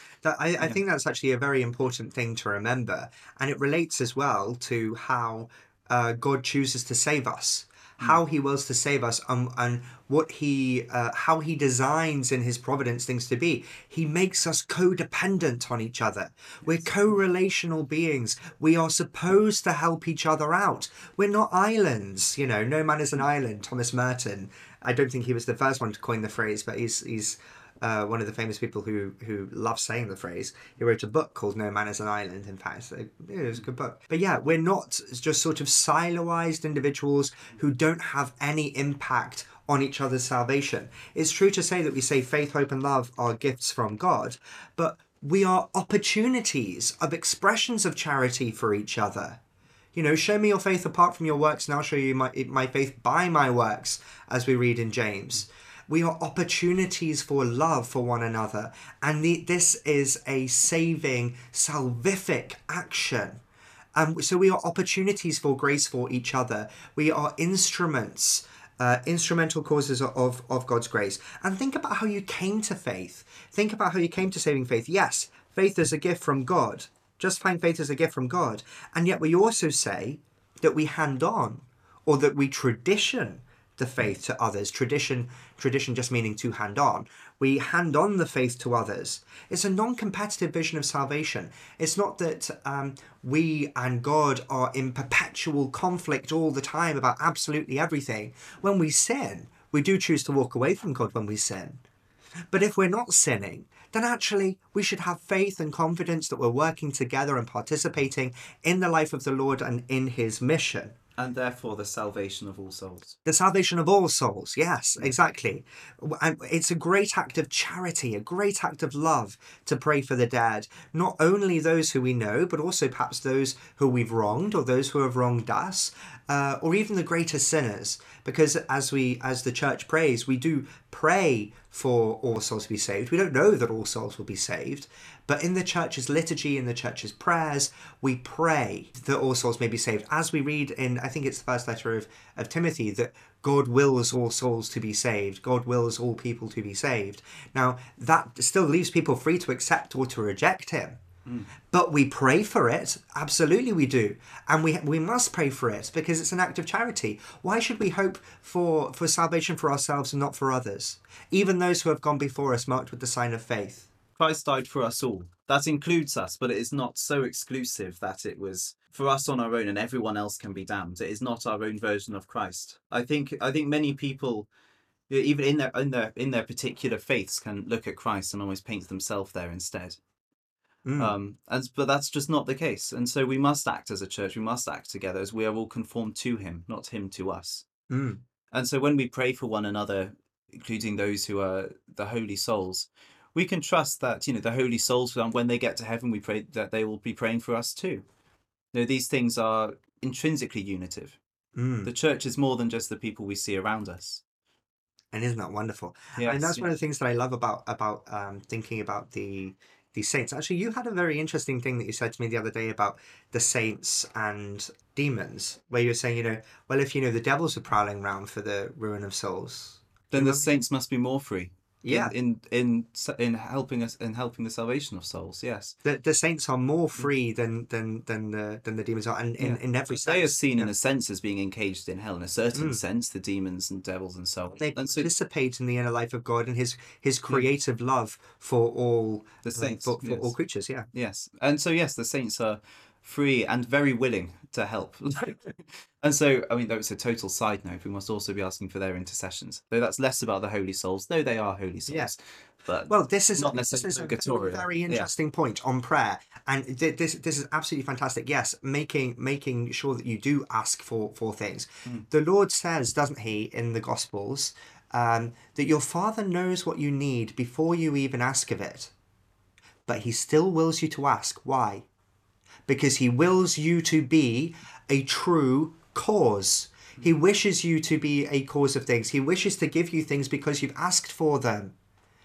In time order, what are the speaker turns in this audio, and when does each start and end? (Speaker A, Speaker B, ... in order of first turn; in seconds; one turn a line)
Speaker A: 0.2-49.4
Speaker A: 49.9-63.4
Speaker A: 64.0-101.8
Speaker A: 102.5-111.0
Speaker B: 111.2-113.2
Speaker A: 113.2-151.0
Speaker A: 151.7-163.9
Speaker B: 164.2-174.5
Speaker B: 175.1-180.0
Speaker A: 180.8-181.1
Speaker B: 181.0-187.7
Speaker A: 187.9-188.2
Speaker B: 188.5-198.1
Speaker B: 198.7-201.2
Speaker A: 201.6-201.9
Speaker B: 201.8-204.2
Speaker A: 205.1-220.5
Speaker B: 206.2-206.7
Speaker B: 220.1-225.8
Speaker A: 221.8-222.1
Speaker A: 225.8-230.7
Speaker B: 229.4-235.1
Speaker A: 232.5-232.8
Speaker A: 234.6-240.9
Speaker B: 239.4-240.3
Speaker B: 240.9-255.1
Speaker A: 251.9-252.1
Speaker A: 252.9-268.9
Speaker A: 269.9-271.9
Speaker A: 272.7-281.7